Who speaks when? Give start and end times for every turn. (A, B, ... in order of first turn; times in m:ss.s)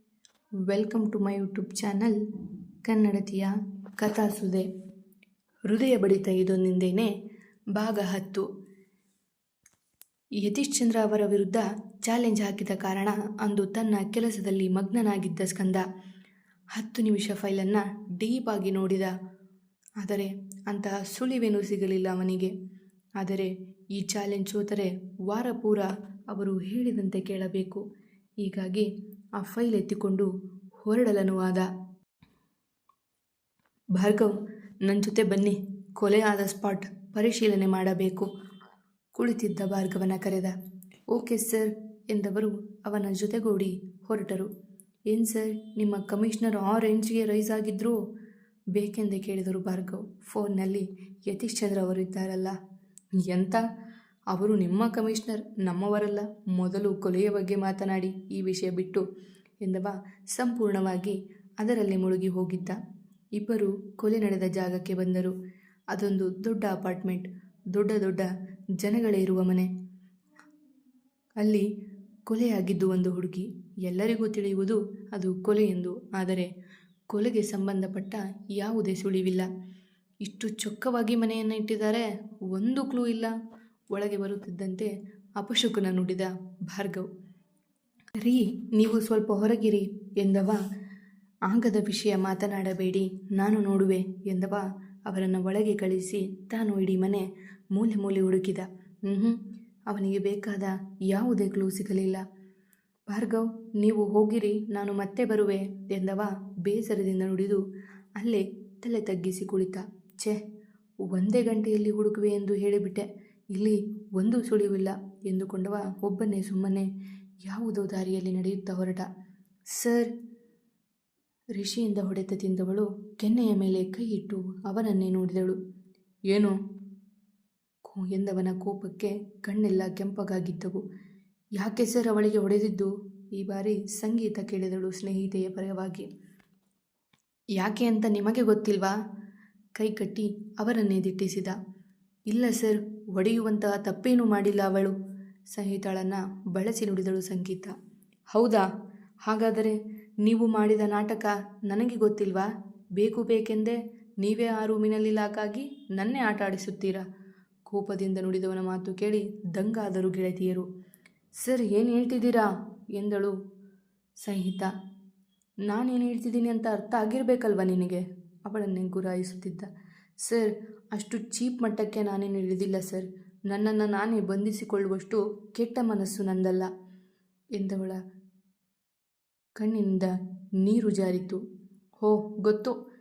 0:00.7-0:02.2 A
0:02.8-0:04.7 A
0:05.7-0:07.1 A
0:07.7-0:08.5 A
0:10.4-0:15.8 A
0:16.8-0:19.1 A
0:20.0-0:22.5 A
0:23.2-0:27.8 A
0:28.4-0:28.9 A
0:29.4-0:30.3 A
0:30.8-0:31.7 A
0:34.0-0:34.3 A
0:34.8-0:38.3 A
0:39.2-0:40.5 A
0:41.1-0:44.5 A
0:45.1-0:48.0 A
0:48.7-0:52.6 A
0:53.2-0:53.6 A
0:54.3-0:59.0 A
0:59.6-1:02.8 A
1:03.4-1:05.3 A
1:05.9-1:09.7 A
1:11.4-1:11.6 A
1:12.3-1:16.5 A
1:17.1-1:19.5 A
1:20.2-1:23.3 A
1:23.9-1:27.1 A
1:28.2-1:30.6 A
1:31.5-1:39.4 A
1:39.9-1:42.2 A
1:43.1-1:47.6 A
1:48.2-1:50.4 A
1:51.1-1:56.9 A
1:57.5-1:59.1 A
1:59.7-2:00.1 A
2:01.6-2:05.6 A
2:06.3-2:06.6 A
2:07.8-2:10.8 A
2:11.6-2:16.1 A
2:17.6-2:19.0 A
2:19.8-2:21.6 A
2:22.3-2:24.9 A
2:25.5-2:27.7 A
2:28.3-2:28.7 A
2:29.2-2:37.0 A
2:37.7-2:40.6 A
2:41.4-2:43.3 A
2:44.2-2:44.7 A
2:45.7-2:49.7 A
2:50.2-2:56.7 A
2:57.6-2:58.0 A
2:59.6-3:01.4 A
3:02.0-3:02.8 A